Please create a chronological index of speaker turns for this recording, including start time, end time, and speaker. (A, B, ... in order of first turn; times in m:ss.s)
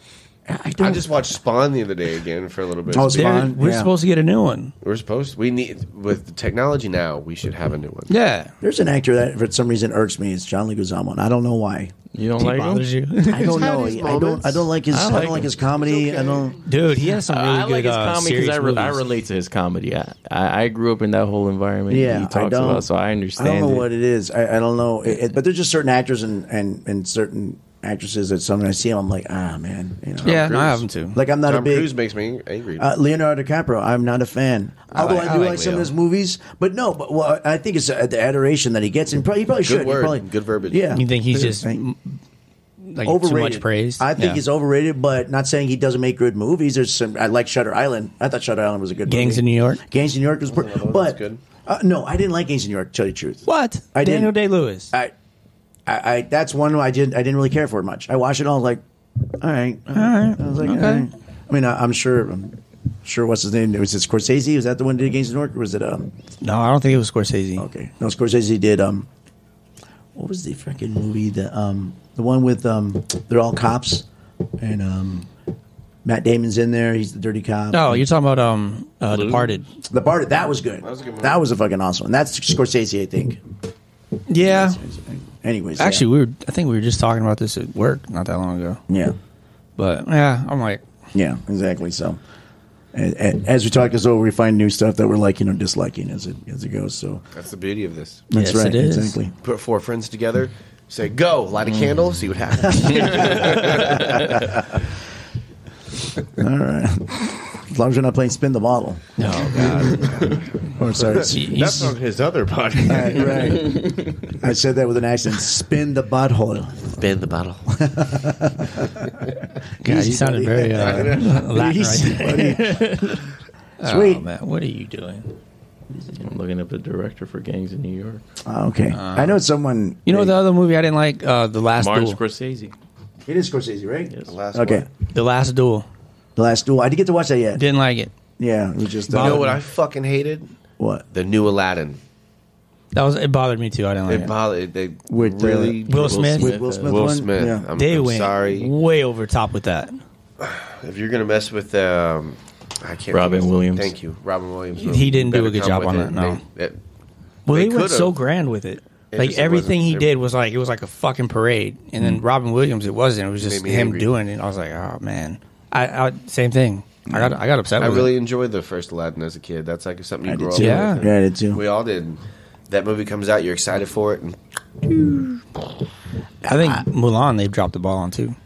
0:00.5-0:01.2 A
0:00.8-0:03.5 B
0:02.9-0:03.9 A
0:03.0-0:04.7 C
0:04.8-0:08.1 B
0:08.1-0:08.5 C
0:08.6-0:11.9 A
0:12.1-0:12.9 D
0:12.4-0:13.7 C
0:13.3-0:16.6 A
0:13.4-0:14.7 B
0:14.9-0:15.5 D
0:15.6-0:16.5 B
0:16.6-0:19.0 C
0:17.0-0:23.9 D
0:21.9-0:30.6 A
0:30.2-0:30.8 B
0:30.2-0:31.2 C
0:31.1-0:31.9 A
0:31.4-0:32.9 B
0:32.8-0:41.8 A
0:35.0-0:35.8 B
0:35.0-0:35.9 C
0:39.6-0:41.0 B
0:40.9-0:42.0 C
0:42.8-0:44.4 C
0:43.0-0:54.4 A
0:49.1-0:49.8 C
0:50.5-0:51.4 B
0:53.4-0:54.9 C
0:55.9-0:58.8 A
0:59.4-1:06.1 A
0:59.9-1:01.1 C
1:06.4-1:07.7 C
1:07.6-1:09.1 A
1:10.1-1:14.1 A
1:14.6-1:15.3 A
1:16.0-1:18.0 A
1:17.7-1:19.7 C
1:19.1-1:19.6 D
1:19.9-1:23.4 A
1:20.8-1:21.4 B
1:24.3-1:24.8 C
1:24.4-1:26.1 A
1:25.8-1:28.8 C
1:28.9-1:29.2 A
1:29.8-1:30.8 C
1:31.1-1:32.2 A
1:32.9-1:37.2 A
1:37.3-1:38.3 B
1:38.3-1:39.3 A
1:38.3-1:39.2 C
1:39.4-1:44.6 B
1:42.7-1:44.8 A
1:43.4-1:43.7 D
1:46.3-1:51.5 A
1:49.2-1:50.2 C
1:49.6-1:53.8 B
1:51.0-1:52.0 C
1:52.8-1:57.0 A
1:53.4-1:54.1 D
1:56.9-1:57.6 B
1:57.7-1:59.1 A
1:59.8-2:03.2 A
1:59.8-2:03.2 C
2:00.7-2:01.4 B
2:03.8-2:05.3 C
2:03.8-2:04.2 A
2:06.1-2:08.2 D
2:08.4-2:10.4 A
2:08.9-2:09.4 C
2:10.1-2:12.2 C
2:11.8-2:12.7 D
2:13.3-2:14.9 A
2:14.3-2:14.9 B
2:15.1-2:15.9 C
2:16.4-2:17.6 A
2:17.6-2:18.1 C
2:18.4-2:19.6 A
2:19.1-2:19.6 C
2:19.1-2:20.5 B
2:20.8-2:21.0 A
2:21.1-2:22.0 B
2:22.9-2:24.3 C
2:24.1-2:28.7 B
2:25.1-2:25.8 A
2:25.9-2:26.5 C
2:25.9-2:27.2 D
2:26.4-2:27.7 A
2:27.7-2:30.0 C
2:30.4-2:36.8 B
2:33.1-2:33.9 D
2:34.8-2:36.4 C
2:37.5-2:48.1 C
2:37.5-2:38.2 B
2:39.1-2:40.1 B
2:43.4-2:44.1 B
2:47.1-2:47.4 A
2:47.8-2:55.4 B
2:50.2-2:51.6 A
2:50.6-2:51.0 C
2:56.4-2:58.4 C
2:56.4-2:56.9 A